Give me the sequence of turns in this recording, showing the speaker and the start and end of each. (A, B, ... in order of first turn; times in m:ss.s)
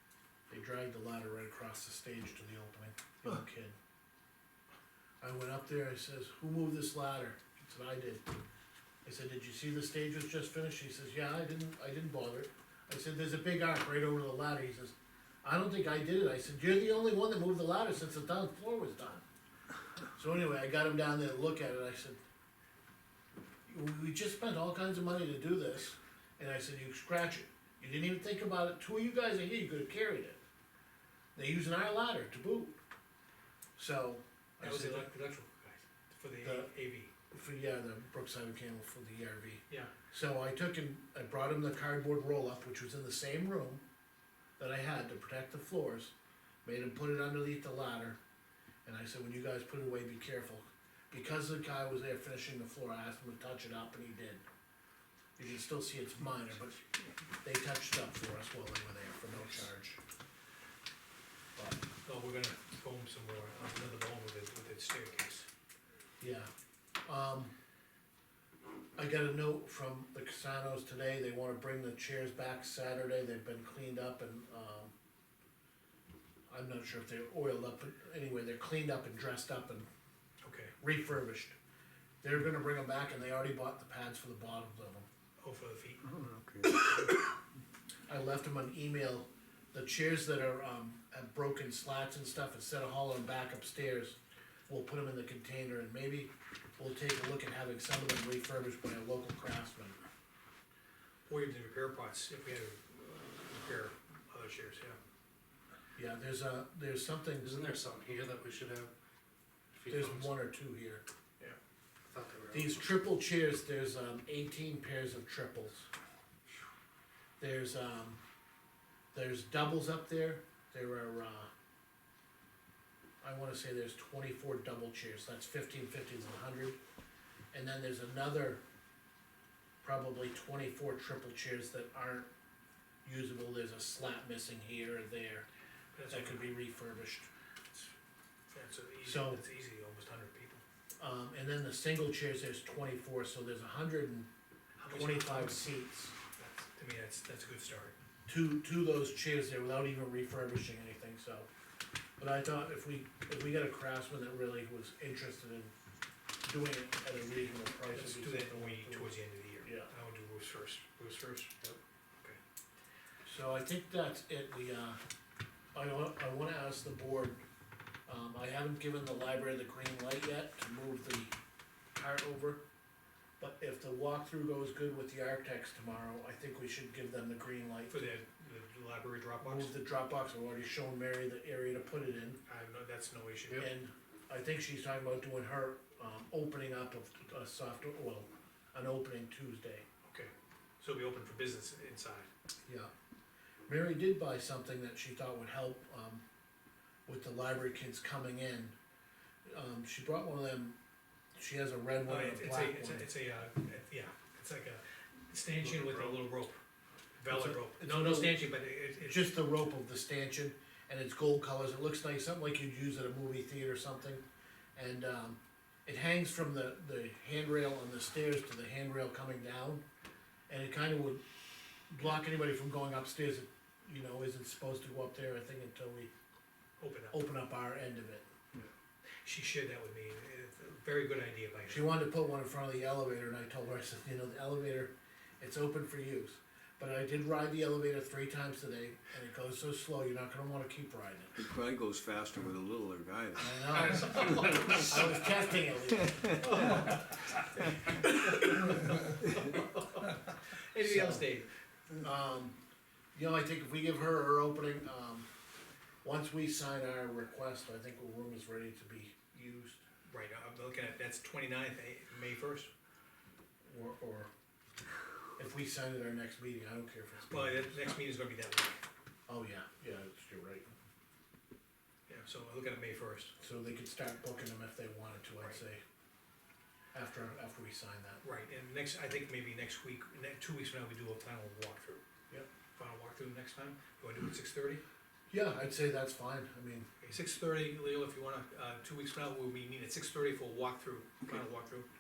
0:00.5-0:03.8 A
0:05.2-0:08.3 A
0:09.0-0:19.2 A
0:20.2-0:22.2 A
0:23.7-0:30.4 A
0:31.4-0:32.8 A
0:33.8-0:35.1 A
0:34.6-0:37.1 B
0:36.4-0:36.7 A
0:37.3-0:43.8 A
0:44.6-0:46.1 A
0:46.6-0:48.2 A
0:48.8-0:54.4 A
0:55.4-0:56.8 A
0:57.4-1:00.0 A
1:01.6-1:01.8 A
1:02.0-1:05.5 B
1:06.2-1:06.5 A
1:07.0-1:07.5 A
1:09.0-1:14.9 A
1:16.5-1:19.9 A
1:20.4-1:20.7 B
1:20.8-1:21.6 A
1:22.2-1:25.1 A
1:25.4-1:26.0 B
1:26.0-1:27.1 C
1:28.1-1:34.2 A
1:34.7-1:40.0 A
1:41.3-1:45.0 B
1:46.0-1:47.5 A
1:47.4-1:48.9 D
1:49.8-1:50.3 D
1:49.9-1:51.0 A
1:52.1-1:52.8 D
1:52.5-1:55.9 A
1:57.4-1:58.2 A
1:59.1-2:01.5 A
2:03.2-2:06.8 A
2:07.5-2:08.6 A
2:09.8-2:12.3 A
2:13.0-2:15.5 A
2:16.0-2:16.5 B
2:16.1-2:17.3 A
2:18.5-2:20.6 B
2:19.0-2:19.4 A
2:21.0-2:24.3 A
2:24.8-2:25.6 B
2:24.9-2:26.1 A
2:26.4-2:28.0 B
2:28.3-2:31.5 A
2:32.2-2:35.7 A
2:36.4-2:39.9 A
2:37.9-2:41.6 B
2:43.2-2:45.0 A
2:45.7-2:47.4 A
2:48.1-2:51.3 A
2:51.9-2:52.6 A
2:53.4-2:58.0 A
2:57.9-2:59.8 B
2:59.4-3:02.4 A
3:02.5-3:03.7 B
3:03.6-3:09.8 A
3:10.0-3:12.3 B
3:12.7-3:12.9 A
3:13.7-3:16.2 A
3:17.1-3:18.8 A
3:19.4-3:20.8 A
3:21.4-3:23.1 A
3:22.1-3:26.6 B
3:25.8-3:26.1 A
3:27.2-3:29.5 B
3:27.3-3:28.4 A
3:29.0-3:34.2 A
3:34.8-3:39.8 A
3:40.5-3:41.2 A
3:41.9-3:46.1 A
3:46.8-3:47.2 B
3:47.1-3:48.3 A
3:49.2-3:52.0 B
3:51.7-4:01.5 A
4:01.4-4:05.0 C
4:03.4-4:06.5 A
4:04.0-4:04.8 B
4:06.1-4:06.4 C
4:06.4-4:11.5 B
4:10.8-4:11.3 A
4:12.0-4:12.6 A
4:13.1-4:15.3 A
4:16.0-4:19.8 A
4:20.0-4:22.7 B
4:23.7-4:24.3 A
4:25.4-4:27.9 A
4:27.3-4:28.8 B
4:29.3-4:30.7 A
4:32.1-4:33.3 B
4:33.4-4:35.8 A
4:36.9-4:38.2 A
4:38.2-4:42.0 B
4:42.8-4:44.8 B
4:45.3-4:46.9 A
4:47.0-4:51.9 B